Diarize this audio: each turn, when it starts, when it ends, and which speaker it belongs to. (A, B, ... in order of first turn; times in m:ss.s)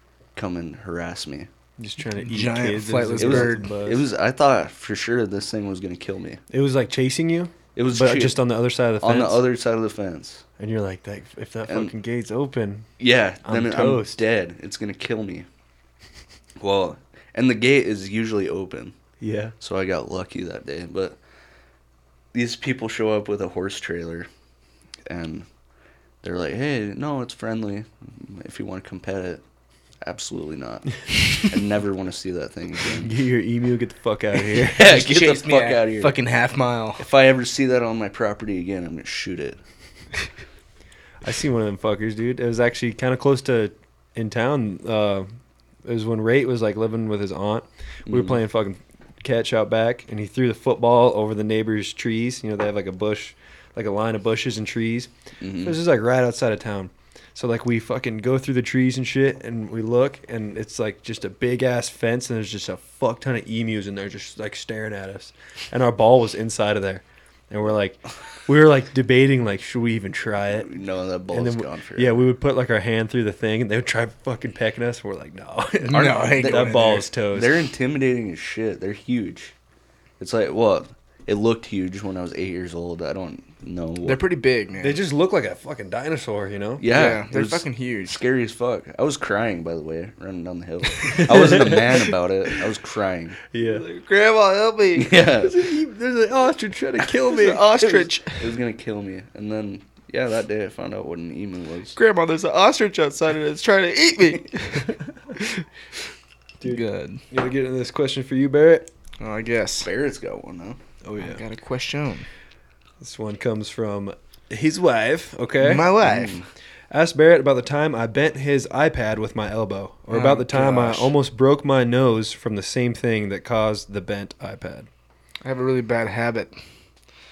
0:00.4-0:01.5 A
0:01.8-0:04.0 B
0:02.2-0:03.7 C
0:03.2-0:06.4 A
0:06.5-0:09.4 B
0:07.8-0:08.4 A
0:09.0-0:10.4 A
0:10.6-0:12.9 B
0:11.7-0:11.9 A
0:13.0-0:15.5 A
0:13.4-0:14.2 B
0:16.6-0:19.0 A
0:19.2-0:19.5 B
0:19.6-0:21.2 A
0:22.3-0:24.3 A
0:25.1-0:25.5 A
0:26.2-0:29.4 A
0:30.0-0:33.1 A
0:33.0-0:34.9 B
0:34.5-0:36.2 A
0:34.8-0:37.0 C
0:37.0-0:39.6 A
0:41.2-0:45.3 B
0:45.8-1:10.7 B
0:48.1-0:48.4 A
0:55.4-0:55.8 A
1:10.5-1:12.2 A
1:11.3-1:17.6 B
1:15.9-1:17.1 C
1:15.9-1:19.5 A
1:20.2-1:24.2 A
1:24.0-1:25.0 C
1:24.8-1:26.9 B
1:26.8-1:33.4 A
1:26.9-1:28.2 C
1:31.0-1:32.0 B
1:33.5-1:33.8 B
1:33.6-1:35.1 C
1:34.9-1:35.6 A
1:35.4-1:37.7 B
1:37.3-1:38.5 C
1:37.8-1:42.0 A
1:42.0-1:45.7 C
1:46.6-1:48.9 B
1:46.6-1:47.2 C
1:49.2-1:49.9 C
1:49.8-1:50.8 A
1:51.0-1:51.4 B
1:51.2-1:52.3 C
1:53.0-1:56.0 B
1:55.6-1:56.4 C
1:56.0-1:56.5 A
1:56.9-2:04.9 B
2:00.1-2:01.1 C
2:05.4-2:06.6 C